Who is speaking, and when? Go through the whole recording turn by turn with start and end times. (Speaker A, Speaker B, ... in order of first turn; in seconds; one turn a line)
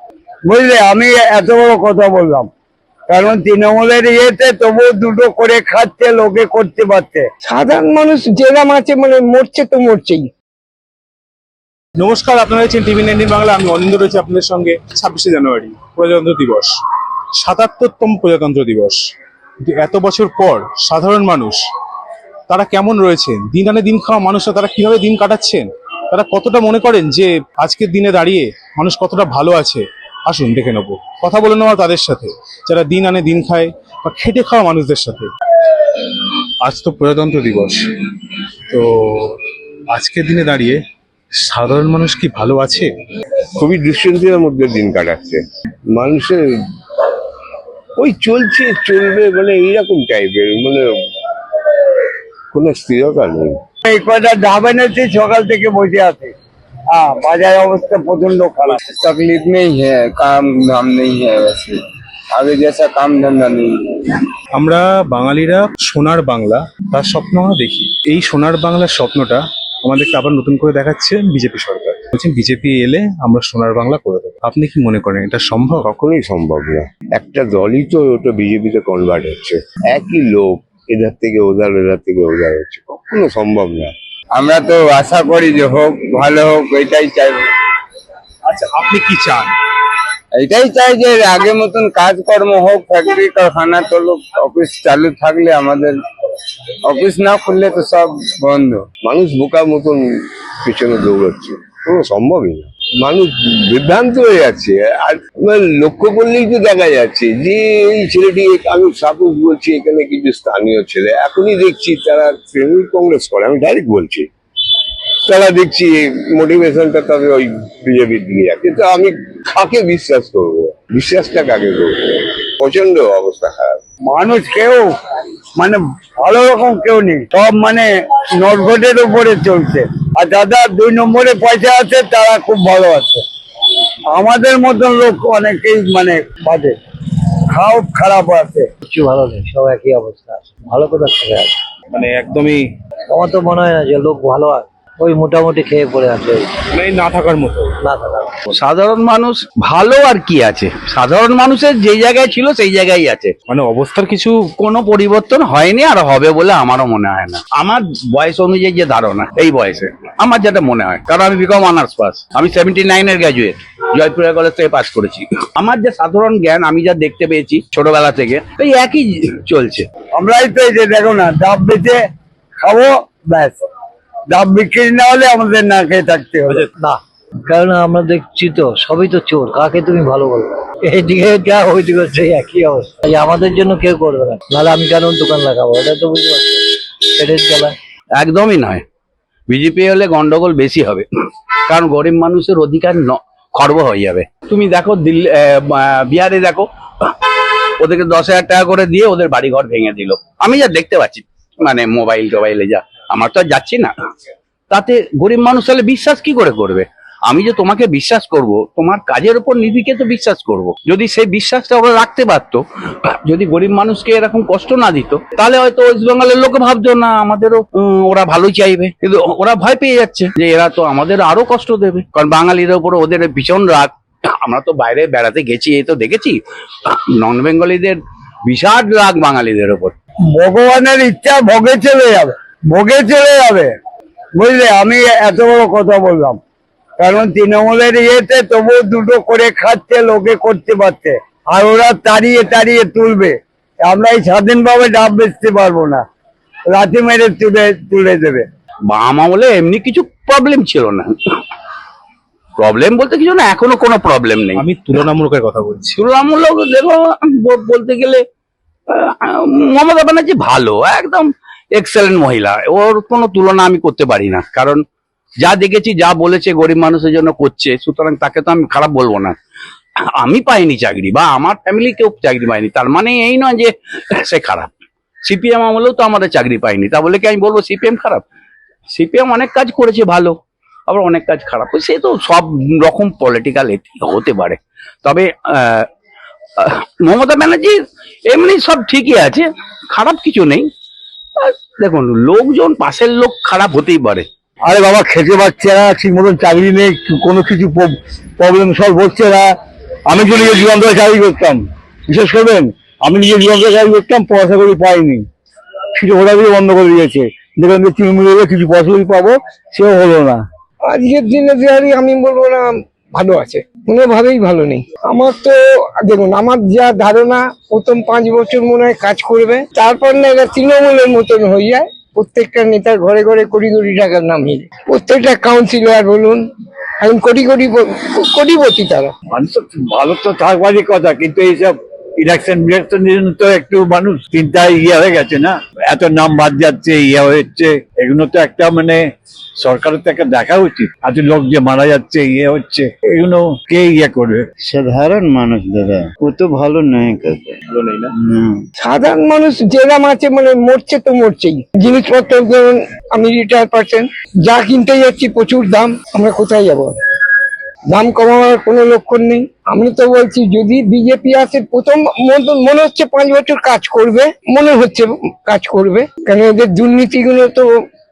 Speaker A: 0.5-2.5
Speaker A: 3.1-7.3
Speaker B: 7.5-10.3
Speaker C: 12.0-16.7
Speaker C: 17.4-19.0
Speaker C: 19.6-21.6
Speaker C: 22.5-35.3
Speaker C: 36.6-37.8
Speaker C: 38.7-39.4
Speaker C: 39.9-40.8
Speaker C: 41.4-42.9
Speaker D: 43.5-47.1
Speaker D: 48.0-53.6
Speaker A: 53.9-56.3
Speaker A: 56.9-61.8
Speaker A: 62.4-63.7
Speaker C: 64.6-75.8
Speaker D: 75.8-83.9
Speaker E: 84.4-87.4
Speaker C: 88.5-89.5
Speaker E: 90.4-96.0
Speaker A: 92.9-93.4
Speaker E: 96.9-98.8
Speaker D: 99.0-114.3
Speaker D: 115.3-123.8
Speaker A: 124.1-124.9
Speaker A: 125.6-133.2
Speaker A: 134.1-136.8
Speaker A: 137.5-138.7
Speaker F: 138.8-141.6
Speaker C: 141.9-142.6
Speaker F: 143.1-146.5
Speaker C: 146.8-147.8
Speaker F: 147.8-148.4
Speaker G: 148.6-153.3
Speaker C: 153.5-154.4
Speaker G: 154.6-169.9
Speaker A: 170.2-172.0
Speaker A: 172.6-173.6
Speaker A: 174.3-176.7
Speaker F: 176.5-187.8
Speaker G: 188.2-188.8
Speaker G: 189.5-191.1
Speaker G: 191.7-197.1
Speaker G: 197.8-203.9
Speaker G: 204.7-212.6
Speaker G: 213.2-223.9
Speaker G: 224.4-229.9
Speaker A: 230.3-233.7
Speaker A: 234.4-236.4
Speaker A: 237.0-246.0
Speaker A: 246.7-248.4
Speaker G: 248.9-251.1
Speaker G: 252.6-254.7
Speaker C: 254.6-256.0
Speaker G: 256.0-258.2
Speaker G: 258.9-264.8
Speaker G: 265.4-269.4
Speaker G: 270.2-274.7
Speaker G: 275.3-278.2
Speaker G: 278.9-280.4
Speaker G: 280.9-285.9
Speaker G: 286.6-287.8
Speaker G: 288.3-290.7
Speaker G: 291.4-294.2
Speaker H: 294.6-299.5
Speaker H: 300.1-305.2
Speaker H: 305.9-310.4
Speaker B: 310.9-326.4
Speaker B: 327.0-329.1
Speaker H: 329.3-339.1
Speaker H: 339.6-344.5
Speaker I: 344.6-347.6
Speaker H: 347.7-348.1
Speaker B: 348.8-356.9
Speaker B: 357.9-367.7